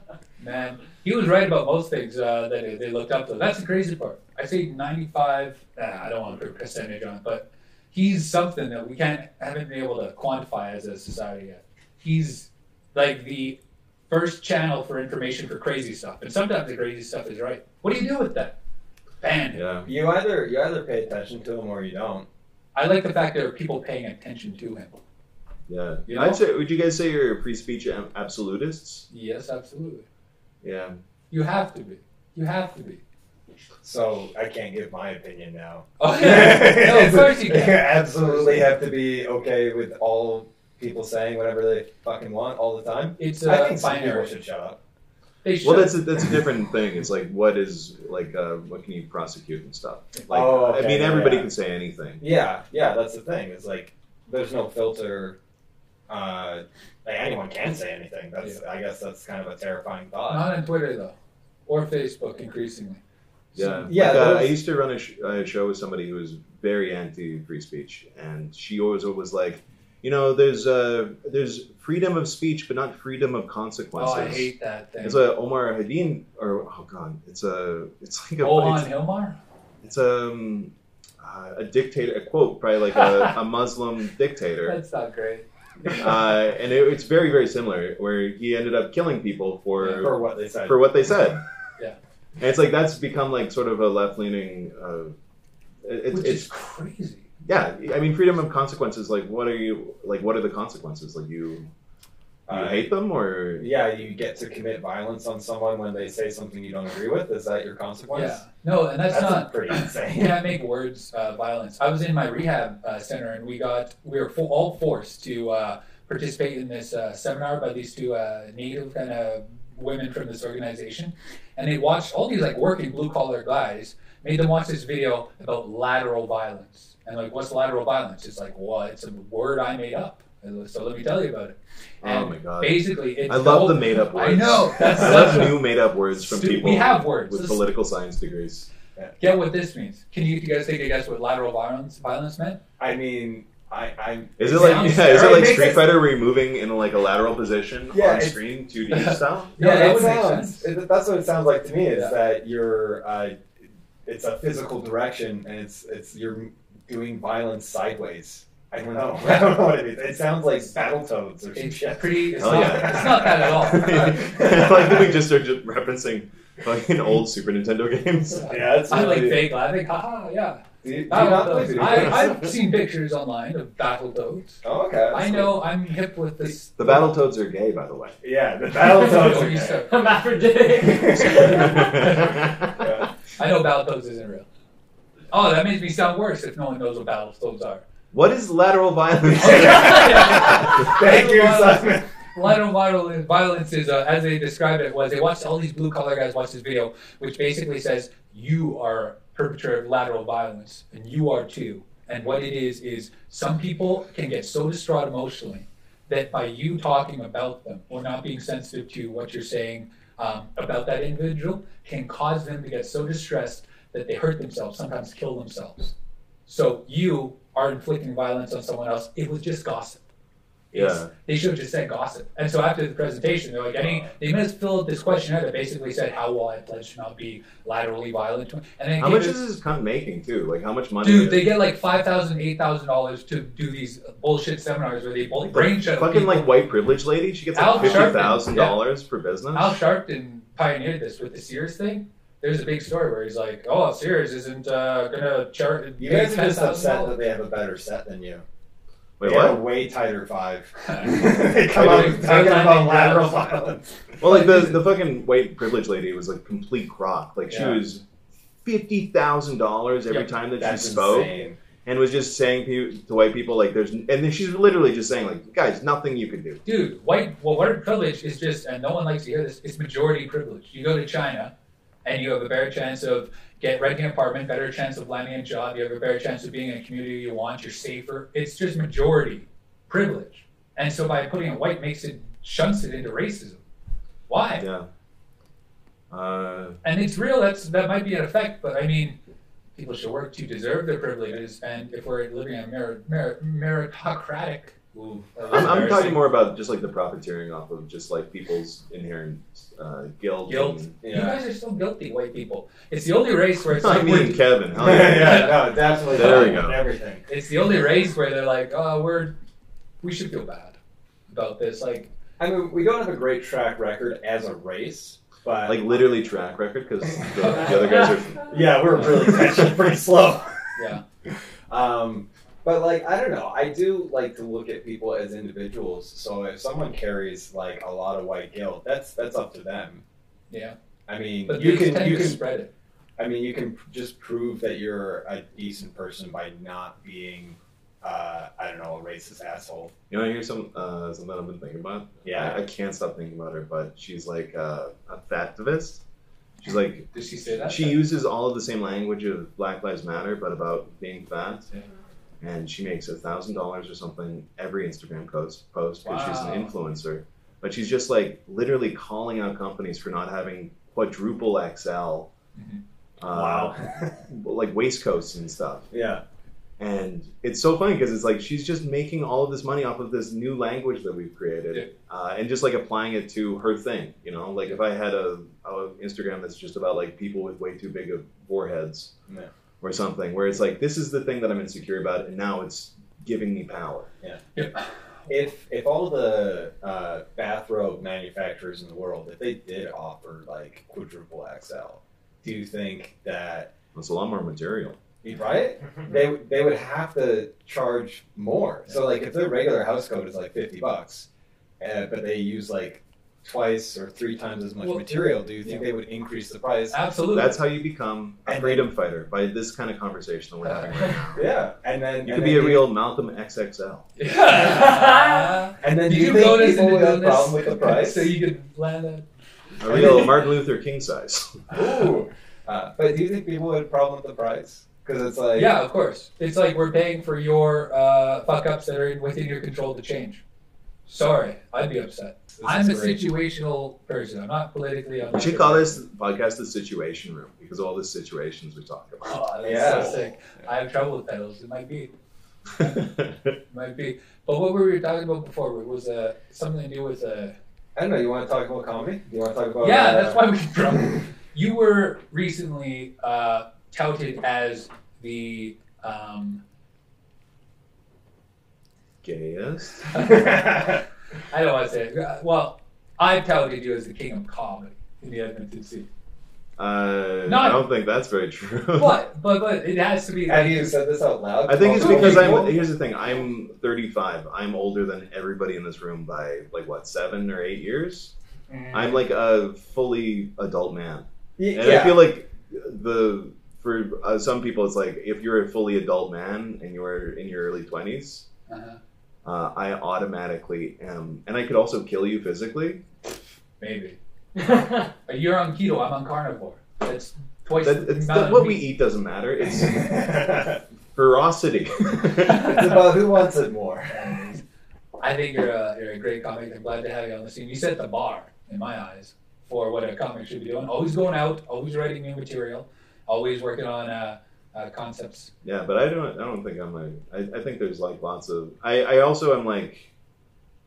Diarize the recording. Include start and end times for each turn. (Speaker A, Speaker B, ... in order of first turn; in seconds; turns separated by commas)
Speaker A: 0.4-18.6, Speaker A: 19.2-19.6, Speaker B: 19.5-19.9, Speaker C: 19.8-22.2, Speaker A: 22.7-25.0, Speaker B: 25.7-29.1, Speaker A: 26.1-26.4, Speaker A: 29.1-30.0, Speaker B: 30.6-31.0, Speaker A: 31.3-33.0, Speaker C: 33.8-44.8, Speaker A: 36.0-38.6, Speaker A: 43.2-44.3, Speaker A: 45.4-46.0, Speaker B: 45.6-52.2, Speaker C: 50.3-51.5, Speaker C: 52.2-55.4, Speaker C: 56.1-60.5, Speaker A: 60.3-61.1, Speaker A: 61.6-63.0, Speaker B: 63.5-74.5, Speaker A: 63.5-63.9, Speaker C: 63.9-64.6, Speaker A: 74.0-75.2, Speaker B: 75.0-78.9, Speaker A: 78.4-79.3, Speaker B: 79.8-84.8, Speaker A: 82.9-83.3, Speaker A: 84.7-86.0, Speaker B: 85.9-91.4, Speaker A: 89.8-90.0, Speaker C: 90.0-90.8, Speaker B: 92.4-95.1, Speaker B: 95.8-96.5, Speaker A: 96.1-97.2, Speaker B: 97.4-101.7, Speaker C: 102.5-102.9, Speaker B: 102.5-103.8, Speaker C: 103.5-108.4, Speaker A: 108.1-137.6, Speaker C: 109.1-110.5, Speaker B: 132.0-138.7, Speaker A: 139.2-142.6, Speaker C: 142.8-146.0, Speaker B: 144.4-149.6, Speaker A: 144.4-145.3, Speaker C: 147.9-148.4, Speaker A: 148.9-150.7, Speaker C: 149.6-153.4, Speaker C: 154.1-165.1, Speaker A: 161.5-164.2, Speaker B: 162.4-168.5, Speaker C: 168.4-169.5, Speaker A: 168.5-177.1, Speaker C: 170.8-172.5, Speaker C: 174.6-175.5, Speaker B: 176.8-178.2, Speaker C: 178.2-179.8, Speaker A: 178.8-179.9, Speaker D: 179.8-182.0, Speaker C: 180.8-181.9, Speaker B: 181.4-182.9, Speaker A: 181.8-182.4, Speaker C: 182.8-183.1, Speaker A: 183.3-184.4, Speaker A: 185.3-187.8, Speaker B: 188.1-190.1, Speaker C: 189.3-192.1, Speaker A: 189.4-215.9, Speaker A: 216.5-220.0, Speaker A: 220.7-229.4, Speaker B: 220.7-221.1, Speaker C: 223.8-224.1, Speaker B: 229.0-231.5, Speaker A: 231.0-236.5, Speaker B: 235.5-239.8, Speaker A: 237.5-238.8, Speaker A: 239.5-247.2, Speaker C: 246.0-248.4, Speaker B: 249.2-249.6, Speaker C: 249.2-254.0, Speaker A: 250.8-253.4, Speaker B: 254.2-258.0, Speaker A: 254.2-254.8, Speaker C: 257.5-257.8, Speaker B: 258.6-261.3, Speaker C: 260.6-261.6, Speaker B: 261.8-266.6, Speaker A: 266.6-271.5, Speaker A: 272.0-283.6, Speaker A: 284.3-284.6, Speaker B: 284.6-284.9, Speaker B: 286.1-286.8, Speaker A: 286.8-289.2, Speaker A: 289.8-296.2, Speaker B: 295.5-300.9, Speaker A: 300.4-304.4, Speaker C: 301.0-301.4, Speaker B: 303.7-306.8, Speaker C: 304.8-307.2, Speaker A: 305.1-306.5, Speaker A: 307.3-309.3, Speaker A: 310.0-310.8, Speaker A: 311.3-312.1, Speaker C: 312.4-315.9, Speaker B: 315.6-318.6, Speaker A: 317.4-318.2, Speaker C: 318.4-320.7, Speaker A: 320.8-321.0, Speaker C: 321.7-330.0, Speaker A: 330.5-330.8, Speaker C: 331.1-332.4, Speaker A: 331.5-332.7, Speaker C: 333.2-339.9, Speaker B: 340.1-346.0, Speaker C: 342.2-342.6, Speaker B: 346.6-351.7, Speaker A: 347.1-348.1, Speaker B: 352.4-362.3, Speaker A: 356.0-356.7, Speaker A: 362.6-362.8, Speaker B: 363.2-363.7, Speaker C: 363.2-364.2, Speaker B: 364.3-365.9, Speaker C: 365.9-366.2, Speaker B: 366.8-379.1, Speaker B: 379.8-384.1, Speaker A: 384.5-384.8, Speaker C: 385.3-393.7, Speaker B: 393.9-395.0, Speaker C: 395.2-401.2, Speaker C: 401.8-407.0, Speaker A: 404.8-405.8, Speaker A: 406.9-407.6, Speaker B: 407.3-411.5, Speaker C: 408.4-408.9, Speaker A: 410.6-411.2, Speaker C: 411.3-412.9, Speaker B: 412.2-414.1, Speaker A: 414.2-419.2, Speaker D: 414.6-415.6, Speaker C: 415.8-418.3, Speaker B: 419.8-421.7, Speaker C: 419.9-420.3, Speaker C: 421.7-425.7, Speaker A: 425.5-430.4, Speaker A: 431.1-436.0, Speaker C: 432.5-433.3, Speaker B: 435.3-440.1, Speaker A: 439.2-442.1, Speaker C: 439.6-440.3, Speaker A: 442.8-447.6, Speaker C: 447.9-450.4, Speaker A: 449.8-456.6, Speaker B: 459.2-460.2, Speaker A: 460.1-460.6, Speaker C: 460.2-461.0, Speaker A: 461.5-466.1, Speaker B: 466.8-469.2, Speaker A: 467.4-467.9, Speaker A: 468.9-470.9, Speaker C: 470.5-472.8, Speaker B: 471.7-478.3, Speaker A: 471.9-472.8, Speaker A: 478.7-479.2, Speaker B: 478.9-488.4, Speaker C: 481.6-482.2, Speaker A: 488.7-489.0, Speaker B: 489.4-493.0, Speaker A: 493.8-494.2, Speaker A: 495.2-498.9, Speaker B: 497.8-500.2, Speaker C: 499.8-500.8, Speaker B: 501.1-502.9, Speaker C: 502.4-504.5, Speaker A: 504.1-504.6, Speaker A: 505.2-515.5, Speaker B: 515.6-520.1